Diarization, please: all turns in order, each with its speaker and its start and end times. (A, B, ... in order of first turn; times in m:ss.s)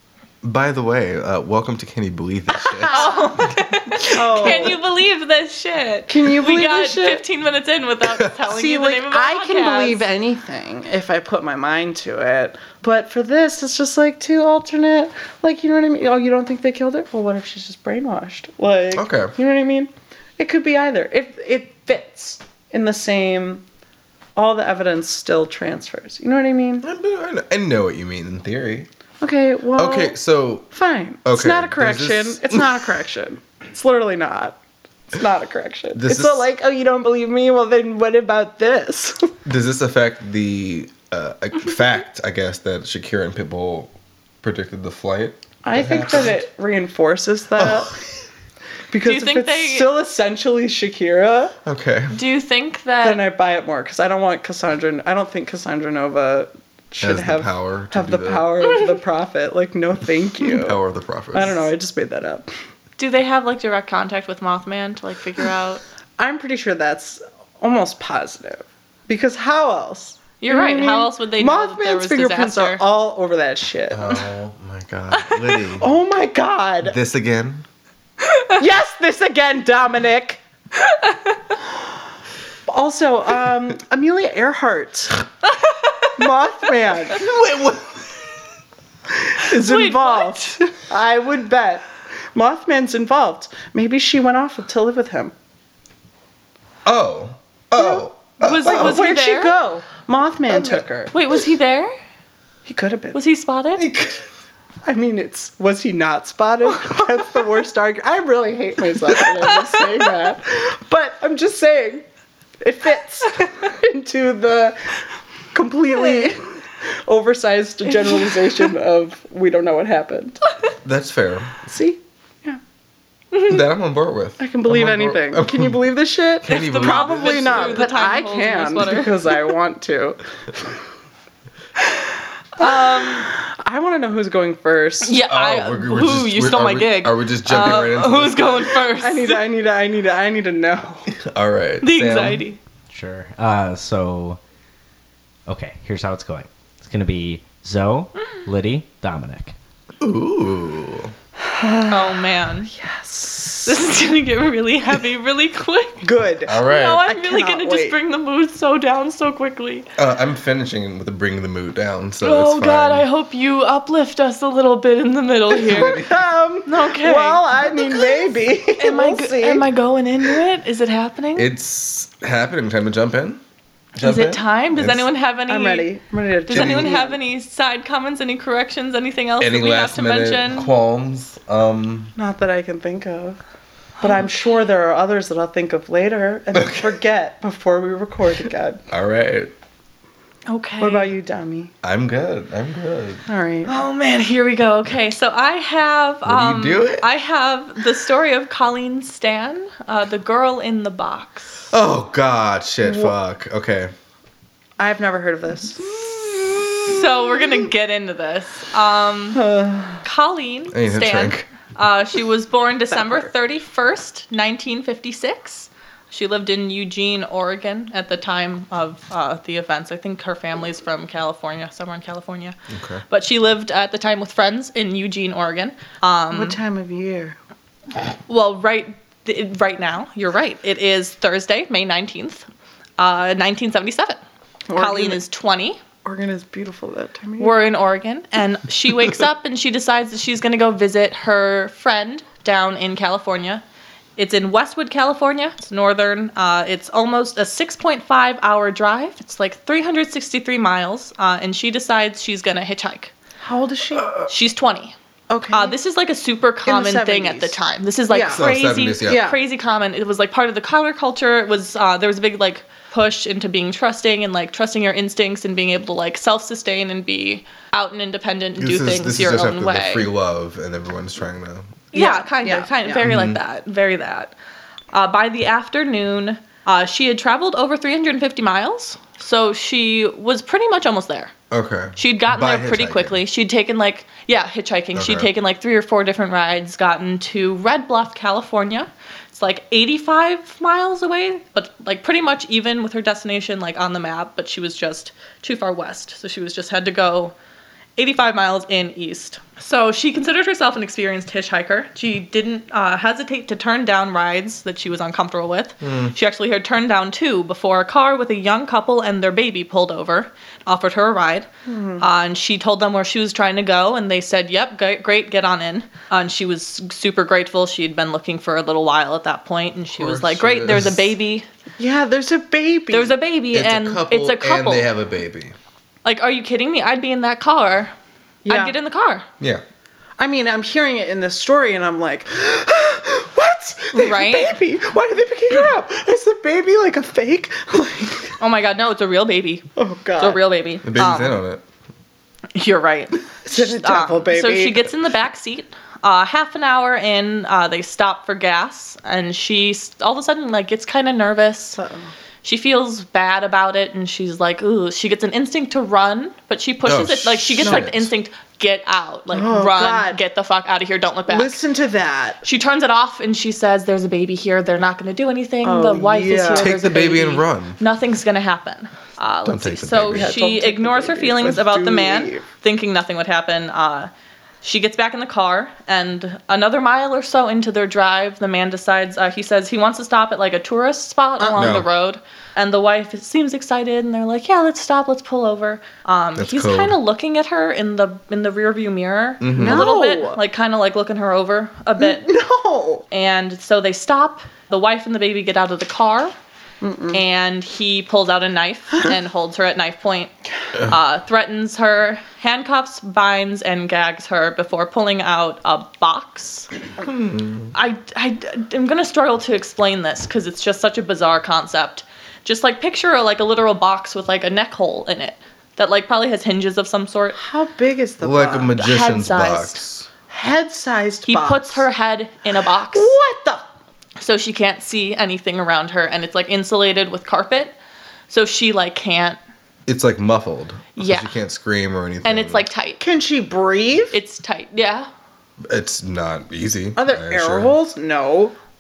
0:00.4-0:03.0 A
0:02.8-0:03.3 B
0:02.9-0:10.0 C
0:04.0-0:04.8 B
0:06.1-0:07.2 B
0:08.4-0:23.6 B
0:18.9-0:19.3 A
0:24.4-0:26.8 B
0:26.8-0:28.9 A
0:29.2-0:30.2 B
0:29.8-0:30.7 A
0:30.7-0:34.6 B
0:31.2-0:32.8 A
0:35.1-0:39.3 B
0:35.9-0:36.5 A
0:39.4-0:46.4 A
0:45.6-0:47.9 B
0:47.6-0:48.0 A
0:48.9-0:51.6 B
0:49.0-0:49.9 C
0:51.6-0:52.1 A
0:52.1-0:53.2 C
0:53.0-1:00.8 B
0:57.0-0:58.6 A
1:00.4-1:01.7 A
1:01.3-1:02.5 B
1:03.0-1:05.8 C
1:06.2-1:14.2 B
1:10.4-1:12.8 C
1:13.9-1:15.9 A
1:15.8-1:17.0 B
1:16.8-1:17.6 A
1:18.2-1:18.6 C
1:18.6-1:20.4 B
1:20.8-1:21.4 C
1:22.7-1:25.2 B
1:26.2-1:27.2 B
1:27.1-1:28.1 A
1:29.1-1:35.3 B
1:29.5-1:30.5 C
1:36.8-1:39.0 A
1:37.8-1:38.0 B
1:38.4-1:39.6 C
1:38.6-1:41.1 B
1:40.5-1:40.8 A
1:41.1-1:41.9 C
1:42.6-1:43.2 B
1:43.1-1:43.8 C
1:43.8-1:44.2 A
1:44.8-1:52.0 B
1:52.6-1:55.0 B
1:55.5-1:56.4 B
1:56.0-1:56.3 C
1:57.0-2:00.4 B
2:00.8-2:01.6 A
2:01.6-2:02.6 B
2:03.4-2:05.8 A
2:04.4-2:10.6 B
2:06.4-2:07.9 A
2:06.5-2:09.2 C
2:12.6-2:13.3 C
2:12.6-2:15.2 B
2:15.0-2:19.4 C
2:15.3-2:18.8 A
2:18.9-2:21.1 B
2:21.2-2:22.4 A
2:21.8-2:22.6 C
2:22.9-2:24.4 D
2:25.5-2:29.5 D
2:30.0-2:31.1 A
2:31.4-2:33.8 B
2:31.9-2:32.7 C
2:33.6-2:36.0 C
2:36.0-2:38.0 B
2:36.5-2:37.0 A
2:36.6-2:39.9 C
2:40.0-2:43.0 A
2:42.2-2:46.0 C
2:45.5-2:49.7 B
2:45.6-2:46.2 A
2:46.6-2:51.5 C
2:51.4-2:53.4 A
2:54.0-2:55.1 A
2:54.0-2:55.9 C
2:55.5-2:57.2 B
2:56.5-3:00.7 C
2:56.5-2:56.9 A
2:59.4-3:02.1 A
3:02.2-3:03.4 B
3:04.0-3:08.8 B
3:06.5-3:06.9 A
3:08.9-3:09.5 A
3:10.5-3:11.1 C
3:10.8-3:11.7 B
3:11.8-3:13.2 A
3:13.3-3:13.7 B
3:13.6-3:21.6 C
3:16.2-3:17.0 A
3:21.7-3:23.9 A
3:22.8-3:23.1 B
3:24.8-3:25.9 B
3:26.8-3:29.4 C
3:29.4-3:30.0 B
3:30.0-3:42.6 C
3:30.7-3:31.5 A
3:32.9-3:33.3 B
3:42.7-3:43.0 A
3:43.1-3:46.6 C
3:46.3-3:47.4 B
3:48.3-3:52.5 C
3:53.0-3:54.2 C
3:54.7-3:55.2 B
3:54.8-3:55.8 C
3:56.0-3:57.5 B
3:57.4-4:03.6 C
4:04.2-4:13.1 C
4:13.4-4:14.2 B
4:14.3-4:14.9 C
4:15.3-4:15.8 B
4:15.5-4:30.1 C
4:16.6-4:17.6 B
4:18.1-4:18.5 B
4:18.3-4:19.3 A
4:19.0-4:19.4 B
4:28.6-4:31.8 A
4:31.9-4:34.3 C
4:31.9-4:33.0 B
4:33.0-4:33.4 A
4:34.9-4:41.3 C
4:41.5-4:43.2 A
4:42.0-4:57.3 C
4:44.9-4:45.3 A
4:58.0-5:11.5 C
5:05.8-5:06.1 A
5:11.6-5:12.0 B
5:12.0-5:21.5 C
5:19.9-5:21.1 A
5:21.8-5:23.2 B
5:22.9-5:24.9 C
5:23.5-5:25.5 A
5:26.0-5:27.9 C
5:28.4-5:28.8 B
5:28.5-5:29.2 C
5:30.2-5:38.4 B
5:33.9-5:34.5 C
5:38.4-5:41.4 C
5:39.8-5:40.4 B
5:40.8-5:41.6 A
5:42.5-5:51.8 C
5:43.5-5:44.9 B
5:51.8-5:52.1 B
5:52.4-6:01.6 C
5:56.8-5:58.1 A
5:59.3-6:00.2 B
6:01.3-6:02.4 B
6:02.4-6:14.1 C
6:05.6-6:06.7 B
6:06.5-6:07.8 A
6:09.4-6:10.3 A
6:10.1-6:12.4 B
6:14.6-6:32.3 C
6:21.5-6:21.9 A
6:26.4-6:27.0 A
6:29.4-6:29.9 A
6:29.5-6:30.4 B
6:32.0-6:33.0 B
6:33.1-6:36.3 C
6:36.8-6:37.2 B
6:37.1-6:46.7 C
6:47.2-6:47.7 A
6:47.7-6:57.4 C
6:57.4-6:58.8 B
6:58.2-7:00.1 A
6:58.8-6:59.8 C
7:00.3-7:01.8 B
7:01.2-7:03.1 C
7:02.9-7:03.6 B
7:04.2-7:07.7 C
7:08.3-7:09.4 C
7:09.9-7:12.6 A
7:11.0-7:11.3 C
7:12.2-7:13.0 C
7:13.0-7:14.2 B
7:14.1-7:15.1 C
7:15.7-7:17.7 A
7:17.0-7:18.5 B